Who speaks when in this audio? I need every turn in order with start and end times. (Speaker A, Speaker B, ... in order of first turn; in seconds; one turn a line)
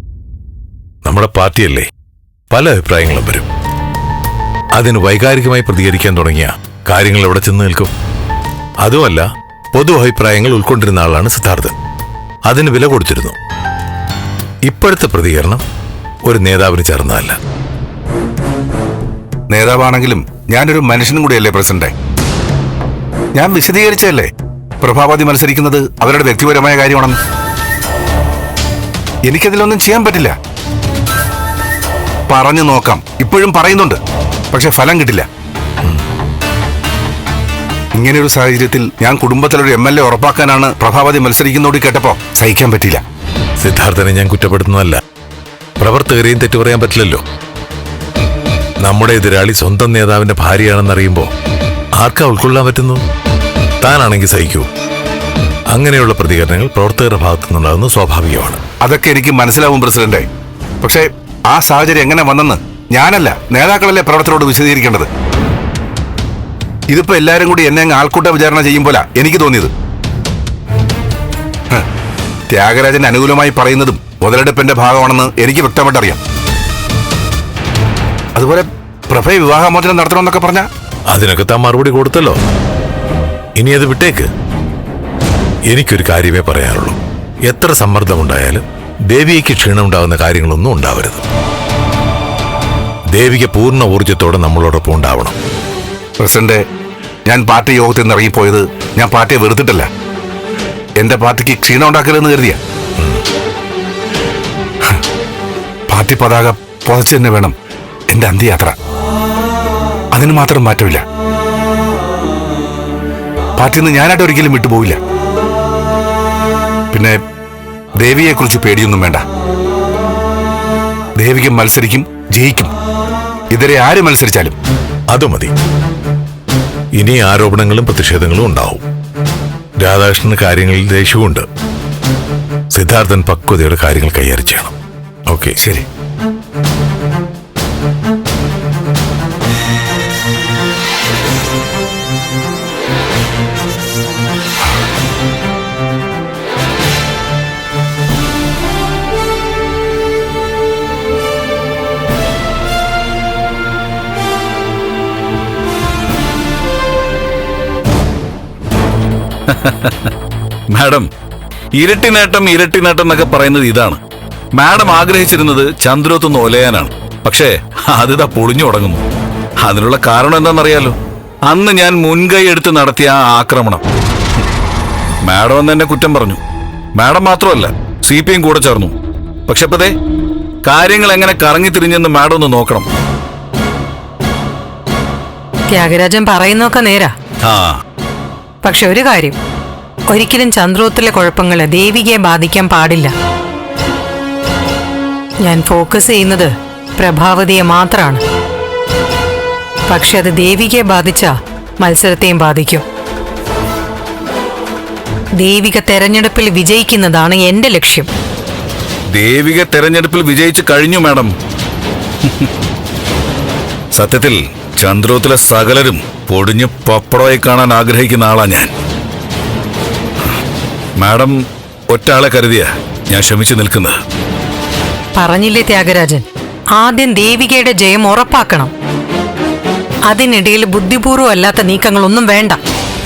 Speaker A: 1.0-1.9
Speaker A: 2.5-3.5
Speaker A: 4.7-7.9
Speaker A: 8.8-11.7
Speaker A: 12.5-13.3
Speaker A: 14.7-15.6
Speaker A: 16.2-17.4
Speaker B: 19.5-21.9
Speaker B: 23.3-24.3
Speaker B: 24.8-27.2
Speaker B: 29.2-30.3
Speaker B: 32.3-34.0
Speaker B: 34.5-35.2
Speaker B: 38.0-43.0
Speaker A: 43.6-45.0
Speaker A: 45.8-47.2
Speaker A: 48.8-51.3
Speaker A: 52.0-53.0
Speaker A: 53.8-54.7
Speaker A: 55.7-58.6
Speaker B: 58.8-60.3
Speaker B: 60.8-65.1
Speaker B: 66.9-69.7
Speaker B: 72.5-76.2
Speaker B: 78.3-80.7
Speaker A: 81.1-82.4
Speaker A: 83.6-84.3
Speaker A: 85.7-91.2
Speaker A: 93.1-95.3
Speaker B: 96.2-96.6
Speaker B: 97.2-99.9
Speaker B: 101.0-102.6
Speaker B: 105.9-107.5
Speaker B: 108.1-108.8
Speaker B: 110.1-111.0
Speaker B: 113.6-115.0
Speaker B: 116.9-117.2
Speaker B: 118.0-119.2
Speaker B: 121.2-122.7
Speaker B: 123.5-124.5
Speaker A: 125.1-125.5
Speaker A: 127.0-128.8
Speaker A: 129.8-131.4
Speaker A: 132.7-134.7
Speaker A: 135.3-135.6
Speaker B: 135.6-135.8
Speaker C: 159.5-160.1
Speaker C: 160.7-161.1
Speaker C: 161.8-164.0
Speaker C: 164.5-169.0
Speaker C: 169.6-173.8
Speaker C: 175.2-176.4
Speaker C: 176.9-178.9
Speaker C: 179.5-179.9
Speaker C: 180.6-182.9
Speaker D: 185.7-187.1
Speaker C: 187.4-187.8
Speaker D: 188.6-189.4
Speaker D: 190.1-193.1
Speaker D: 195.4-198.2
Speaker D: 199.9-202.8
Speaker D: 205.4-208.1
Speaker C: 209.1-211.3
Speaker C: 213.9-218.7
Speaker C: 221.0-224.0
Speaker D: 225.2-226.2
Speaker D: 226.8-228.7
Speaker D: 230.1-232.6